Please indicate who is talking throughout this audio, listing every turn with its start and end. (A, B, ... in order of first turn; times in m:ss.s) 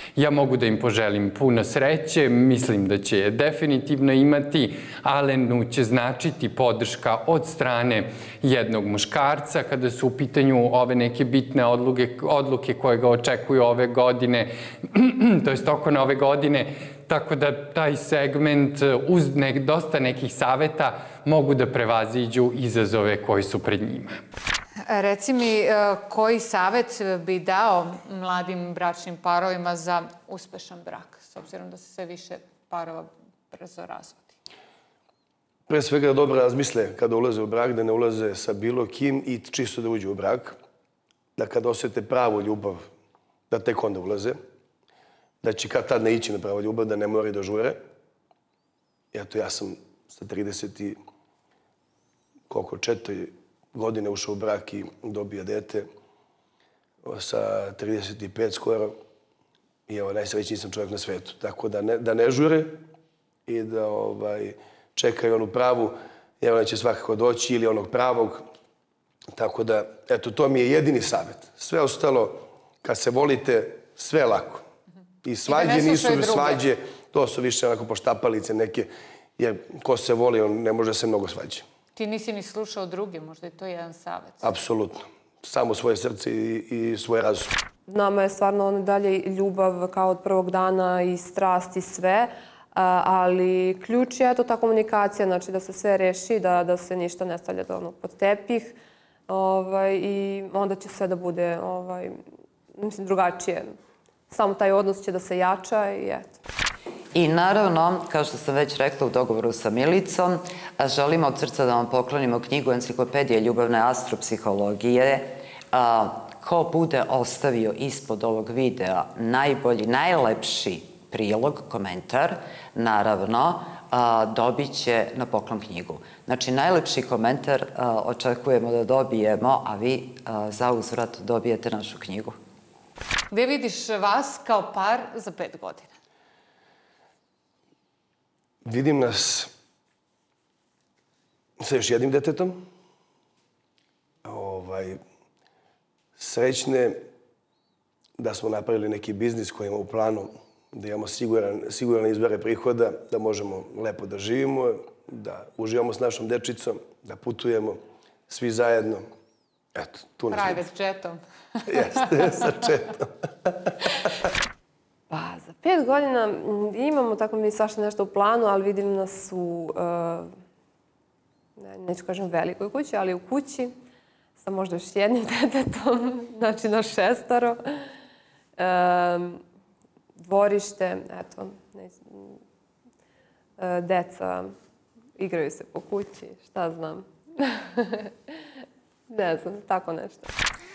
0:00.2-0:24.2 A
0:24.9-0:34.4 B
0:35.7-0:40.6 C
0:41.4-0:42.8 C
0:43.5-0:44.4 C
0:45.4-0:47.8 C
0:49.1-0:51.0 C
0:52.5-0:55.9 C
0:57.0-0:58.9 C
0:59.9-1:02.8 C
1:03.5-1:08.4 C
1:09.3-1:14.6 C
1:15.2-1:21.6 C
1:15.5-1:16.6 B
1:22.0-1:24.4 B
1:24.4-1:27.5 C
1:27.9-1:38.8 D
1:39.3-1:42.2 D
1:42.8-1:43.8 D
1:44.3-1:46.4 D
1:47.1-2:12.4 E
2:13.3-2:15.9 B
2:18.6-2:19.5 C
2:21.6-2:22.6 C
2:24.2-2:25.0 C
2:26.2-2:27.0 C
2:28.2-2:39.0 C
2:39.8-2:40.6 C
2:40.3-2:42.3 B
2:41.7-2:44.3 C
2:45.1-2:50.3 D
2:51.6-2:53.7 D
2:54.4-2:57.9 D
2:58.6-2:59.4 D
3:00.2-3:02.4 D
3:03.6-3:04.5 D
3:05.2-3:08.1 D
3:09.1-3:10.3 D